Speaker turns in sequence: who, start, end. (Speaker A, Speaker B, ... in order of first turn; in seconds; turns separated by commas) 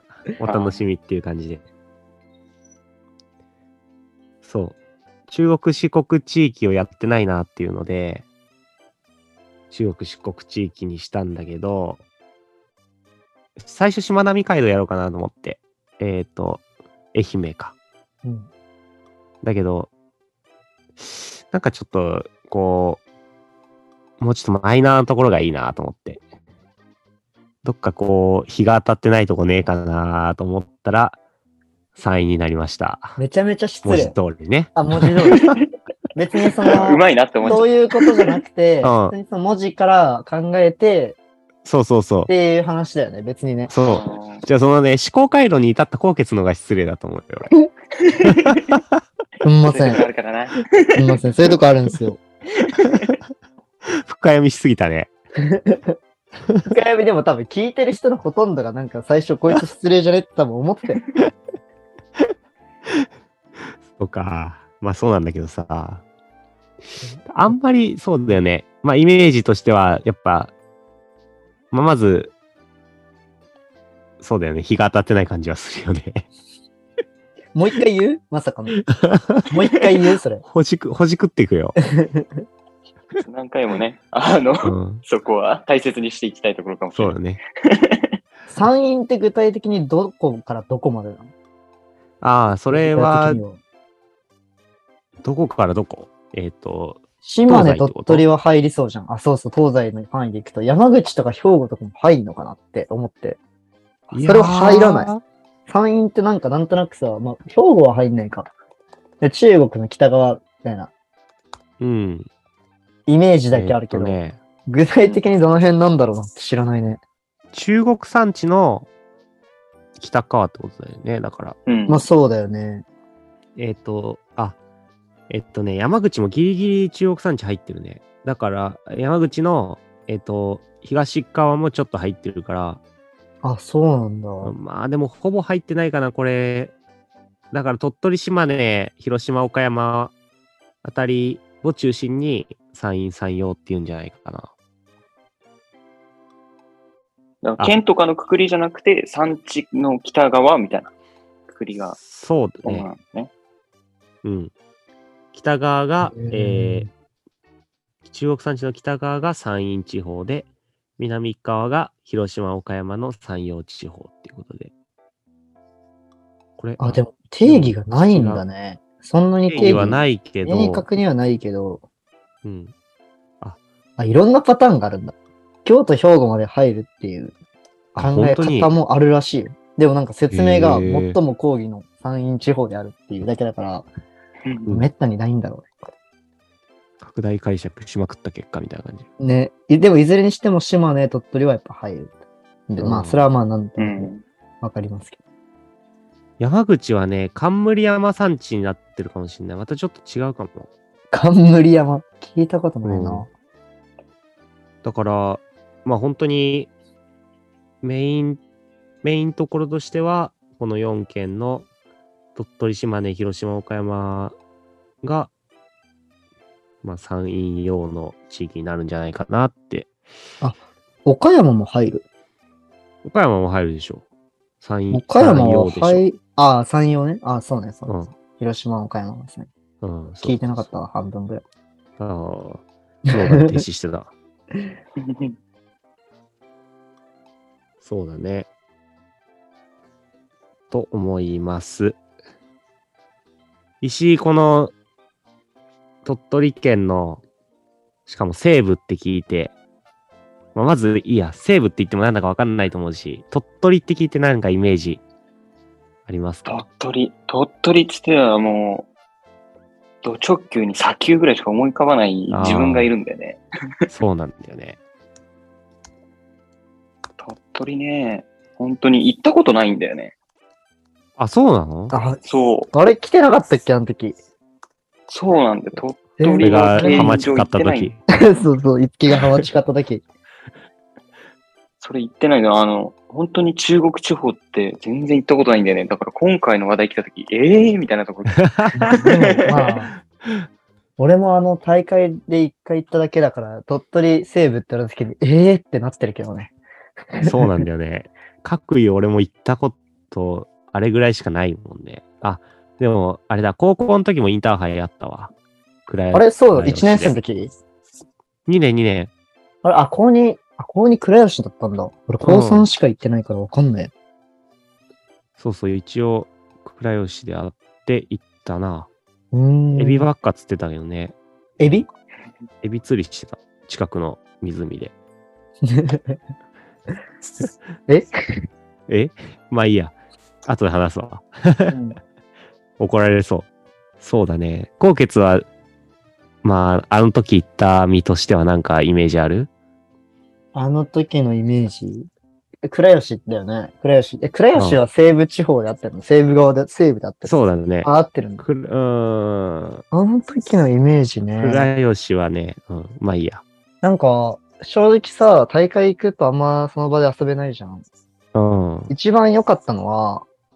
Speaker A: 0.4-1.6, Speaker B: 0.4-0.8, Speaker A: 4.4-4.8, Speaker A: 5.3-8.2, Speaker A: 9.7-12.0, Speaker A: 13.6-17.7, Speaker C: 18.2-18.5, Speaker A: 19.4-19.9, Speaker A: 21.0-23.0, Speaker A: 24.2-26.2, Speaker A: 27.6-31.2, Speaker A: 32.0-33.1, Speaker C: 33.2-34.2, Speaker A: 33.8-34.7, Speaker C: 34.7-35.5, Speaker C: 36.1-41.2, Speaker B: 36.6-38.3, Speaker A: 38.8-39.1, Speaker A: 41.6-42.3, Speaker C: 42.3-43.7, Speaker A: 43.7-47.5, Speaker B: 43.9-44.4, Speaker B: 48.0-48.6, Speaker A: 48.2-48.8, Speaker C: 49.4-50.0, Speaker B: 49.7-51.2, Speaker C: 51.0-52.2, Speaker B: 52.6-53.1, Speaker A: 53.9-55.1, Speaker C: 55.5-56.0, Speaker C: 56.6-61.0, Speaker A: 63.9-66.0, Speaker A: 67.3-70.5, Speaker A: 71.7-72.3, Speaker A: 74.2-76.2, Speaker C: 77.5-78.8, Speaker A: 78.9-79.5, Speaker C: 79.5-80.4, Speaker A: 80.4-81.7, Speaker C: 81.8-82.4, Speaker B: 83.2-88.2, Speaker A: 84.6-85.0, Speaker A: 86.9-87.4, Speaker C: 88.5-91.3, Speaker A: 92.2-93.4, Speaker C: 92.7-93.6, Speaker A: 95.2-98.2, Speaker C: 97.2-103.4, Speaker C: 104.1-105.1, Speaker A: 104.1-105.2, Speaker C: 105.7-108.5, Speaker C: 109.2-110.9, Speaker A: 111.8-112.3, Speaker C: 113.1-117.0, Speaker A: 113.5-114.4, Speaker A: 117.5-118.9, Speaker A: 120.0-121.6, Speaker B: 121.7-122.0, Speaker C: 121.9-122.8, Speaker A: 123.5-124.6, Speaker A: 125.3-132.8, Speaker C: 133.4-134.5, Speaker A: 134.4-136.7, Speaker A: 137.5-140.1, Speaker A: 140.8-144.5, Speaker B: 147.4-150.9, Speaker B: 151.5-152.0, Speaker A: 152.0-152.9, Speaker B: 152.6-153.3, Speaker A: 154.2-154.5, Speaker A: 155.3-156.9, Speaker C: 156.0-156.9, Speaker A: 158.0-160.5, Speaker A: 161.0-164.7, Speaker A: 166.6-168.4, Speaker C: 166.8-171.8, Speaker A: 169.5-170.8, Speaker A: 172.4-172.7, Speaker C: 174.0-177.3, Speaker A: 177.9-178.7, Speaker C: 178.0-183.9, Speaker A: 180.3-181.2, Speaker C: 184.7-185.7, Speaker A: 187.0-189.1, Speaker C: 189.2-192.1, Speaker C: 192.7-195.2, Speaker A: 192.8-193.2, Speaker B: 193.8-194.2, Speaker A: 196.4-200.7, Speaker C: 201.1-203.3, Speaker A: 202.8-203.2, Speaker A: 204.8-206.7, Speaker A: 207.8-208.4, Speaker A: 209.0-211.7, Speaker A: 212.3-214.3, Speaker A: 215.0-215.3, Speaker A: 216.8-219.9, Speaker C: 220.4-222.0, Speaker A: 223.0-224.0, Speaker A: 224.6-226.0, Speaker C: 224.9-229.5, Speaker A: 229.8-230.6, Speaker C: 230.2-231.4, Speaker A: 232.0-234.1, Speaker C: 233.1-233.6, Speaker B: 235.0-235.3, Speaker A: 237.8-238.5, Speaker A: 240.7-242.0, Speaker A: 243.8-244.7, Speaker A: 246.0-247.2, Speaker A: 248.1-249.5, Speaker A: 250.5-255.0, Speaker A: 256.1-256.6, Speaker B: 256.4-258.9, Speaker B: 260.0-263.4, Speaker A: 262.3-262.9, Speaker A: 263.9-264.8, Speaker B: 267.2-270.1, Speaker A: 271.2-271.9, Speaker C: 271.9-272.2, Speaker B: 272.2-272.7, Speaker C: 272.7-274.1, Speaker B: 275.1-277.9, Speaker C: 276.2-277.3, Speaker A: 276.4-278.0, Speaker C: 278.1-280.0, Speaker B: 281.8-289.7, Speaker A: 288.3-289.0, Speaker C: 288.8-289.9, Speaker C: 291.0-296.5, Speaker C: 297.1-297.7, Speaker A: 297.2-305.3, Speaker A: 305.9-307.1, Speaker C: 306.1-307.5, Speaker A: 308.4-309.1, Speaker C: 309.6-313.9, Speaker A: 312.2-312.7, Speaker A: 315.4-318.9, Speaker C: 319.3-320.1, Speaker A: 319.7-321.1, Speaker C: 321.6-321.9, Speaker A: 322.6-324.9, Speaker C: 325.6-326.2, Speaker C: 327.9-328.4, Speaker A: 328.9-331.7, Speaker C: 331.7-332.0, Speaker A: 332.8-333.5, Speaker A: 334.0-335.4, Speaker A: 336.4-339.5, Speaker C: 340.5-342.1, Speaker C: 342.6-348.4, Speaker A: 344.5-344.8, Speaker A: 347.2-349.8, Speaker C: 349.9-351.7, Speaker A: 351.4-353.4, Speaker C: 353.8-357.8, Speaker A: 358.3-358.9, Speaker C: 358.9-360.2